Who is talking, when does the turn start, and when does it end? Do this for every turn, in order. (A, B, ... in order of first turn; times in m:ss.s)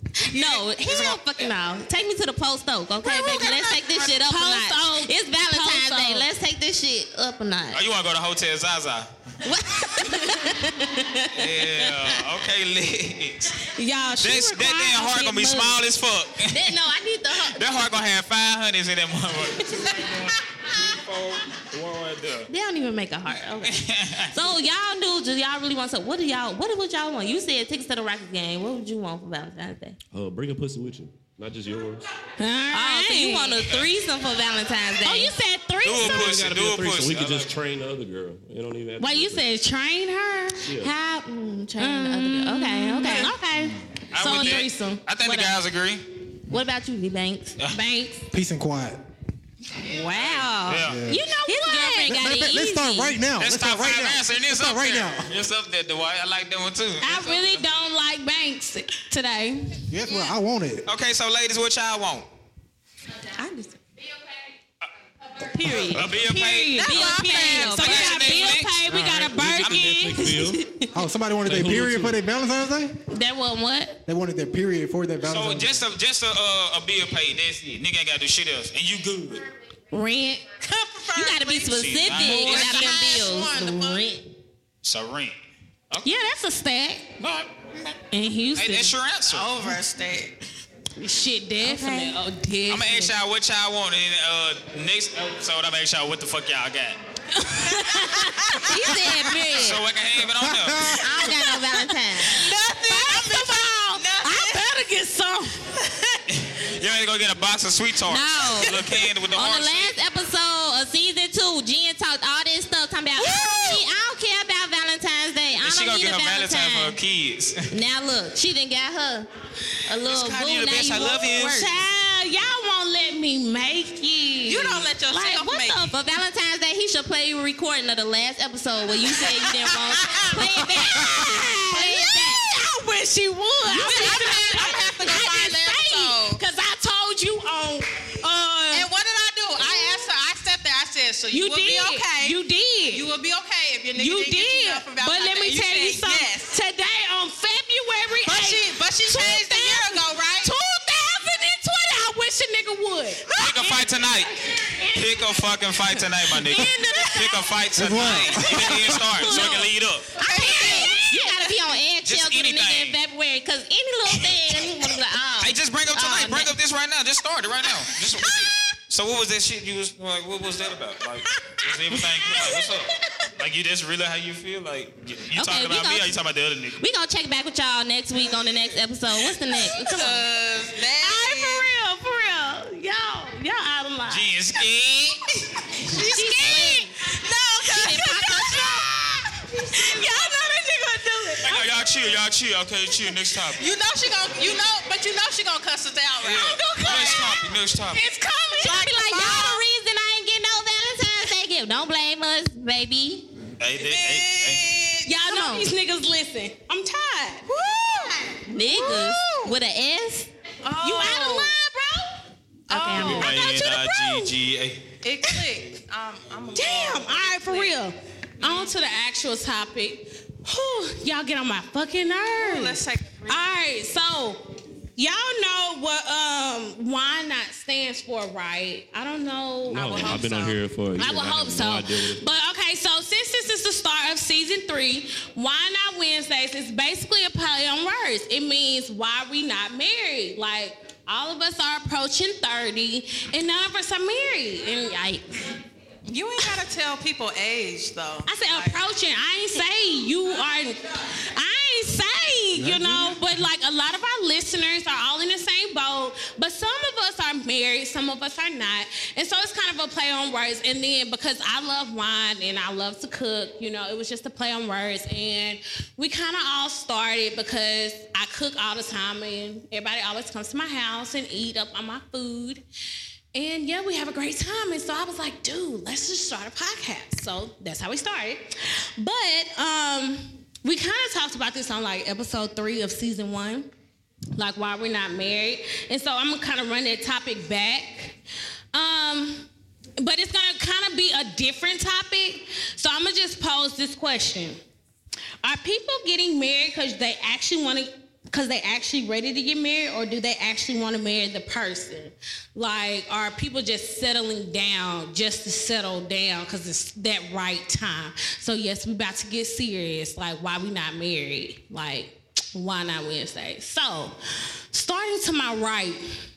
0:00.2-0:07.8 A
0:00.3-0:01.2 B
0:03.0-0:06.3 C
0:07.7-0:09.1 B
0:09.4-0:12.1 A
0:11.3-0:13.6 B
0:13.8-0:15.8 C
0:14.2-0:16.7 B
0:16.5-0:17.6 A
0:17.4-0:22.5 B
0:22.5-0:30.0 A
0:23.6-0:24.4 B
0:30.1-0:32.0 D
0:32.4-0:33.6 C
0:32.7-0:35.3 A
0:35.0-0:36.3 C
0:35.8-0:37.5 B
0:36.0-0:39.4 D
0:39.0-0:40.6 C
0:40.6-0:40.9 D
0:40.8-0:43.7 A
0:41.8-0:45.6 C
0:44.1-0:46.0 B
0:46.5-0:47.6 A
0:47.7-0:48.2 C
0:48.3-0:49.0 E
0:49.8-0:53.1 A
0:50.1-0:51.0 B
0:50.8-0:51.2 E
0:51.1-0:52.6 C
0:52.0-0:55.3 E
0:53.4-0:57.6 B
0:57.0-0:59.8 C
0:59.9-1:00.9 E
1:00.9-1:02.3 B
1:03.4-1:03.8 A
1:05.4-1:06.0 A
1:05.7-1:08.8 B
1:05.9-1:10.8 C
1:06.8-1:08.6 A
1:07.2-1:07.7 F
1:08.8-1:10.7 D
1:09.6-1:09.9 B
1:10.9-1:13.0 E
1:11.4-1:12.2 D
1:13.1-1:14.0 C
1:14.0-1:15.8 E
1:15.2-1:19.4 B
1:19.9-1:20.5 C
1:20.6-1:24.0 F
1:21.1-1:24.2 A
1:21.7-1:23.0 B
1:24.8-1:25.4 B
1:26.0-1:27.1 C
1:27.2-1:27.5 B
1:28.1-1:28.9 C
1:28.6-1:29.5 B
1:29.2-1:30.4 F
1:31.0-1:33.1 C
1:31.6-1:32.2 A
1:32.7-1:37.0 B
1:37.3-1:38.8 C
1:37.9-1:38.7 F
1:38.7-1:39.8 A
1:39.5-1:41.0 B
1:40.3-1:41.0 E
1:41.0-1:42.4 A
1:41.8-1:45.6 C
1:42.3-1:44.7 F
1:46.3-1:50.0 B
1:48.0-1:57.0 A
1:53.2-1:53.8 C
1:55.6-1:57.7 B
1:57.7-1:59.3 A
1:59.9-2:01.7 A
2:00.0-2:01.7 B
2:01.5-2:05.6 C
2:04.4-2:05.9 F
2:05.1-2:12.4 A
2:09.2-2:10.4 F
2:10.3-2:18.9 C
2:13.6-2:16.4 F
2:13.8-2:14.2 A
2:18.7-2:26.5 F
2:21.3-2:23.0 C
2:24.0-2:41.3 C
2:28.2-2:30.5 F
2:33.4-2:34.3 B
2:34.9-2:40.1 B
2:37.7-2:39.0 E
2:40.2-2:41.3 F
2:40.2-2:46.5 A
2:42.0-2:43.0 B
2:45.4-2:56.8 B
2:51.5-2:52.7 C
2:55.3-2:56.1 A
2:56.8-3:00.2 A
2:59.8-3:00.1 C
2:59.8-3:01.7 F
3:01.0-3:04.3 C
3:04.1-3:05.2 B
3:05.8-3:06.9 C
3:05.9-3:08.8 F
3:06.0-3:06.9 A
3:07.6-3:08.8 C
3:07.7-3:08.9 A
3:09.6-3:10.3 F
3:09.7-3:11.7 C
3:11.4-3:13.7 B
3:13.6-3:17.2 F
3:16.2-3:18.0 B
3:16.4-3:19.5 C
3:18.6-3:23.3 A
3:18.7-3:19.6 F
3:23.6-3:24.7 B
3:23.8-3:25.1 F
3:25.0-3:27.4 C
3:25.2-3:25.6 A
3:27.4-3:29.5 F
3:28.5-3:30.3 A
3:28.7-3:29.2 C
3:30.6-3:31.6 F
3:30.8-3:32.1 C
3:32.7-3:33.5 F
3:32.7-3:33.4 A
3:32.8-3:34.3 C
3:32.9-3:34.9 B
3:35.0-3:37.8 F
3:36.5-3:44.4 C
3:38.4-3:38.8 F
3:42.4-3:43.5 F
3:45.0-3:50.3 C
3:49.7-3:52.2 D
3:49.7-3:50.6 F
3:50.9-4:05.6 C
4:06.1-4:08.8 F
4:08.2-4:32.6 C
4:12.6-4:13.1 D
4:33.3-4:43.7 C
4:44.4-4:48.2 C
4:48.7-4:49.5 C
4:50.0-4:54.6 C
4:55.4-5:14.2 C
5:14.7-5:16.0 C